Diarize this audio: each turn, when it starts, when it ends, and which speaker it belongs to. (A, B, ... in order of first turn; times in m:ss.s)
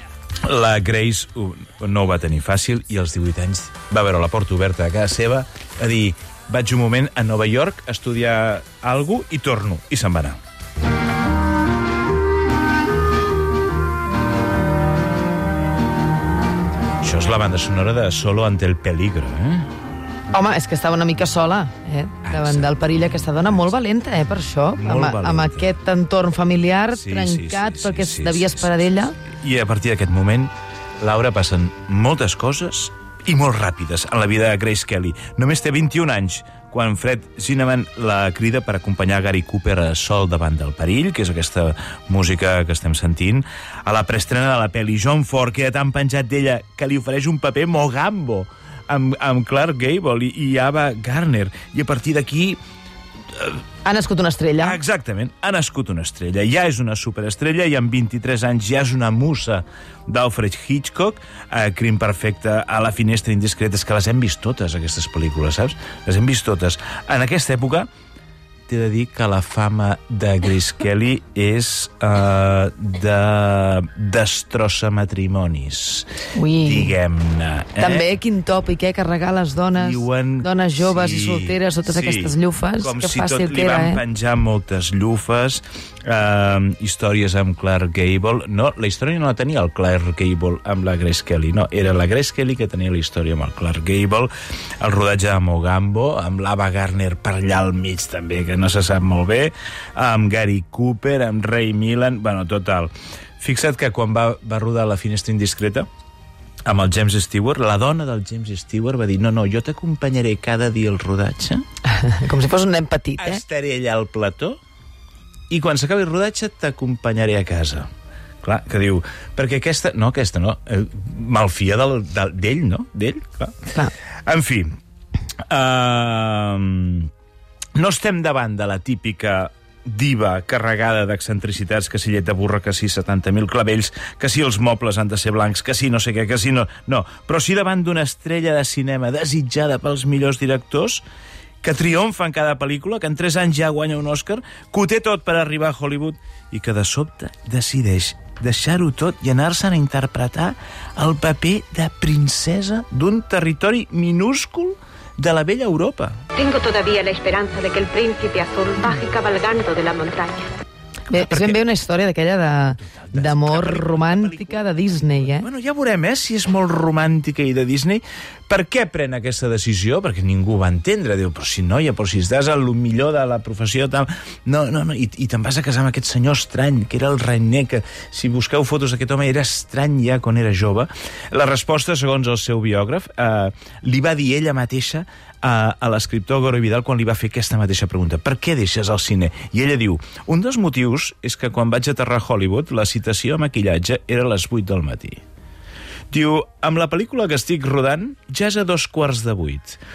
0:00.4-0:10.4 A
0:17.0-0:19.7 A
0:20.3-0:29.2 B
0:22.2-0:23.7 A
0:24.8-0:25.7 A
0:26.9-0:52.6 A
0:53.3-0:53.6 A
0:53.8-0:54.8 B
0:54.6-1:07.9 A
1:08.7-1:18.1 A
1:16.3-1:16.9 B
1:17.8-1:24.0 B
1:19.8-1:45.9 A
1:46.6-1:51.6 A
1:51.9-1:53.4 B
1:53.2-1:54.6 A
1:55.5-1:57.9 A
1:58.4-2:03.6 A
2:04.2-2:04.7 A
2:05.5-2:07.1 A
2:07.7-2:21.0 A
2:21.6-2:36.2 A
2:36.3-2:40.5 C
2:41.1-2:41.6 A
2:41.1-2:45.5 B
2:43.0-2:44.6 A
2:45.3-3:15.2 A
3:16.1-3:19.8 A